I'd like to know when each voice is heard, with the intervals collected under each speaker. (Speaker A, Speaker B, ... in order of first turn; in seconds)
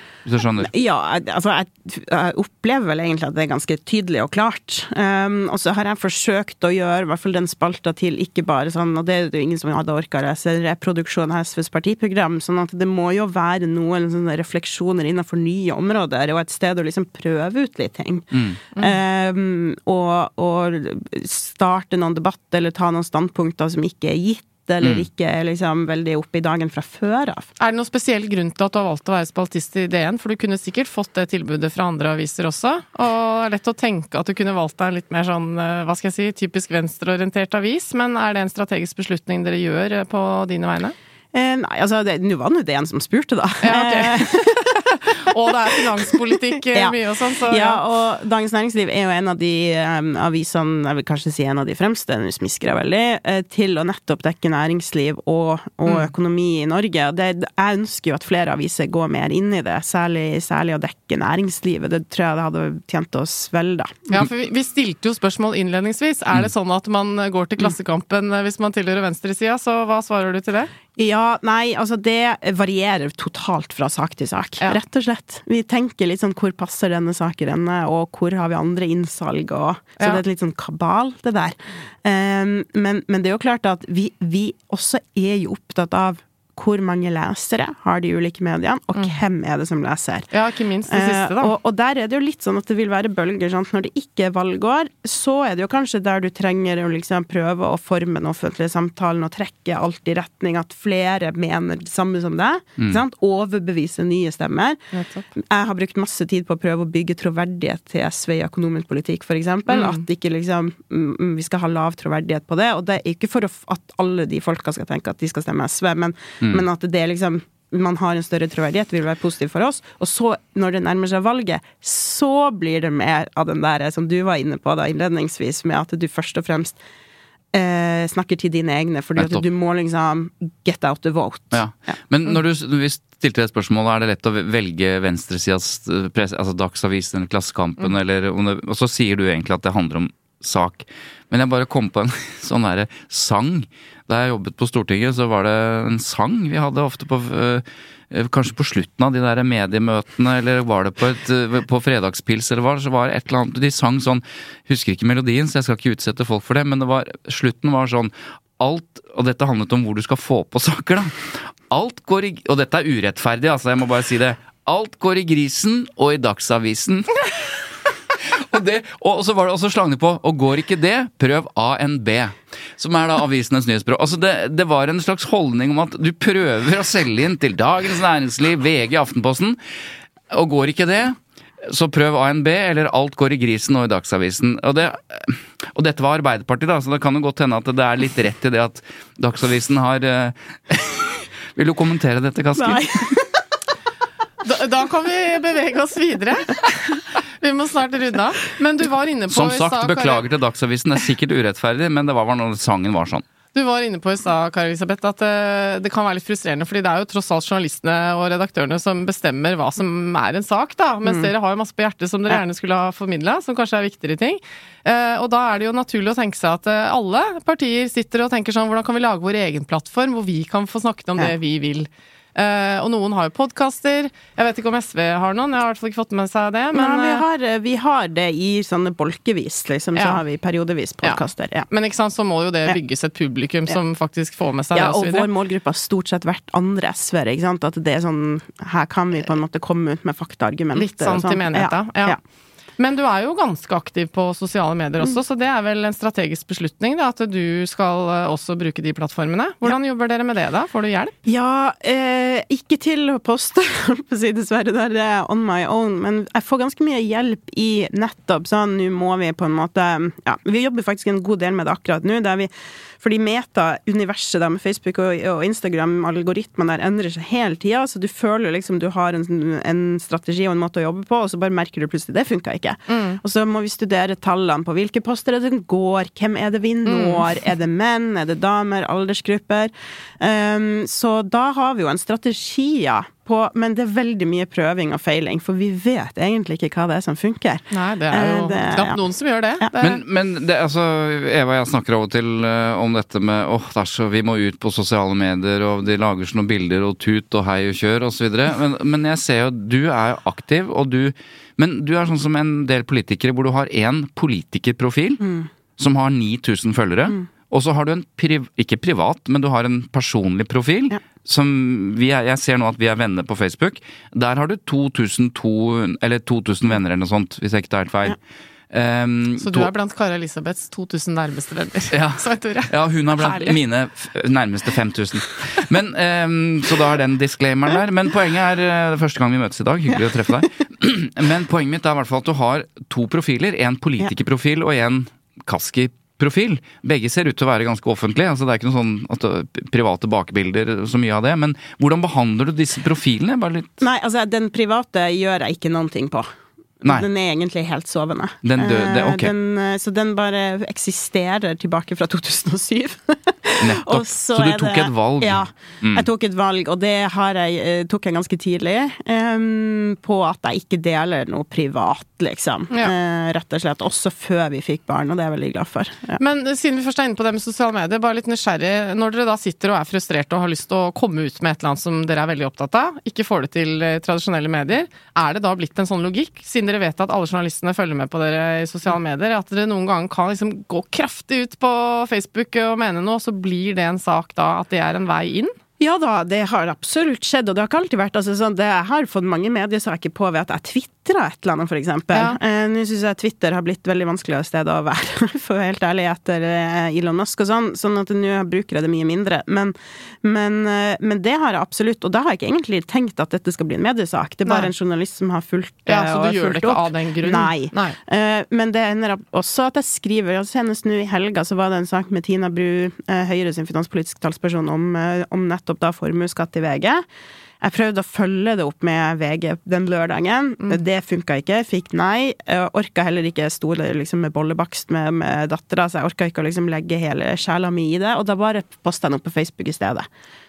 Speaker A: 0.2-0.7, 18.3-18.6, 24.8-25.1, 129.2-129.4, 131.5-167.2, 168.2-179.6, 180.3-193.1, 199.3-203.2, 289.8-305.2, 305.8-318.2, 318.7-319.7, 321.9-343.8, 348.4-349.3, 353.6-356.1
Speaker B: 0.6-27.5, 41.3-44.7, 47.5-64.1, 71.0-90.3, 90.9-104.8, 105.3-126.8, 127.5-131.6, 192.6-193.4, 226.7-231.7, 234.7-242.2, 251.2-289.0, 305.2-305.5, 343.8-346.3, 346.8-366.2, 385.8-417.0, 417.6-430.1
Speaker C: 27.6-40.9, 43.6-47.8, 55.9-56.1, 64.1-70.7, 90.3-91.5, 104.9-105.2, 109.7-110.0, 194.4-200.2, 203.5-227.2, 229.9-230.2, 231.0-235.3, 240.7-242.2, 242.8-251.1, 272.9-273.2, 276.9-277.3, 287.7-290.0, 319.4-323.6, 366.2-385.5, 392.1-392.4, 404.4-404.7, 405.9-408.0